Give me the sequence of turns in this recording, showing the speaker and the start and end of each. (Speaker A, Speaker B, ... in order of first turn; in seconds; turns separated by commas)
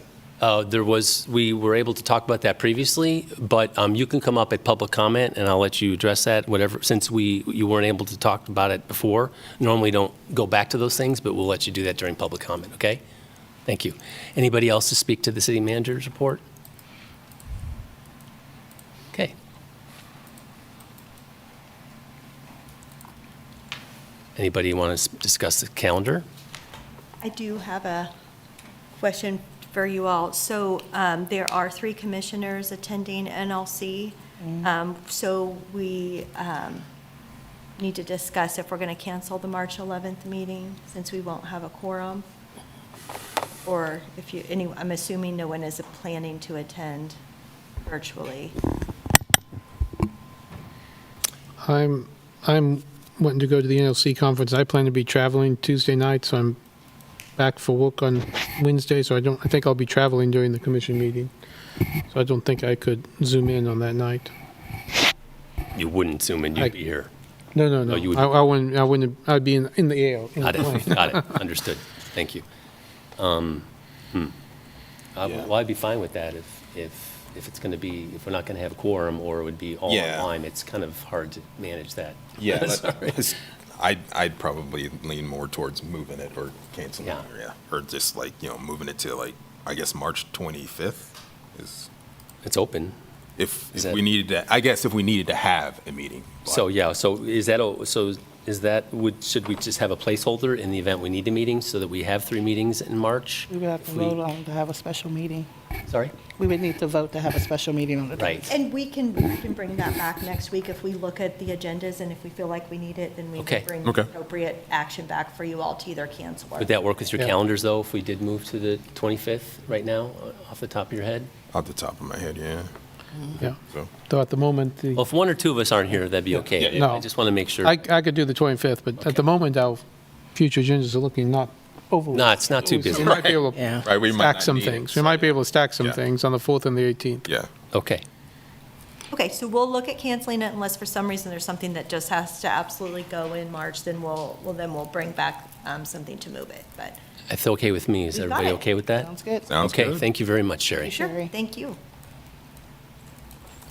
Speaker A: 0.4-13.0, Speaker A: 13.7-16.4, Speaker A: 24.4-26.2, Speaker B: 27.2-28.1, Speaker B: 29.0-36.8, Speaker B: 37.8-42.2, Speaker B: 43.6-47.2, Speaker B: 47.8-48.5, Speaker C: 51.6-56.6, Speaker C: 57.4-61.3, Speaker C: 62.1-64.3, Speaker A: 65.7-67.1, Speaker C: 67.5-71.2, Speaker A: 67.9-68.4, Speaker A: 70.4-72.4, Speaker A: 73.2-74.3, Speaker A: 75.1-83.2, Speaker D: 79.9-80.3, Speaker D: 82.4-91.9, Speaker A: 92.4-93.0, Speaker D: 93.4-96.7, Speaker A: 93.7-94.0, Speaker A: 96.5-104.2, Speaker E: 103.5-105.5, Speaker A: 105.9-106.2, Speaker E: 106.3-108.5, Speaker A: 108.2-108.5, Speaker B: 108.5-116.7, Speaker A: 113.4-113.7, Speaker A: 116.6-121.3, Speaker D: 121.5-122.7, Speaker C: 123.4-125.0, Speaker A: 125.0-127.8, Speaker D: 126.5-126.8, Speaker C: 126.7-127.0, Speaker C: 127.6-129.8, Speaker C: 130.3-137.2, Speaker A: 132.1-133.3, Speaker D: 132.9-133.3, Speaker E: 133.5-133.9, Speaker D: 133.8-136.0, Speaker A: 137.7-138.0, Speaker B: 139.1-147.0, Speaker A: 147.3-151.0, Speaker B: 148.1-148.7, Speaker E: 148.9-149.5, Speaker D: 149.5-150.1, Speaker E: 150.8-151.3, Speaker B: 150.9-151.8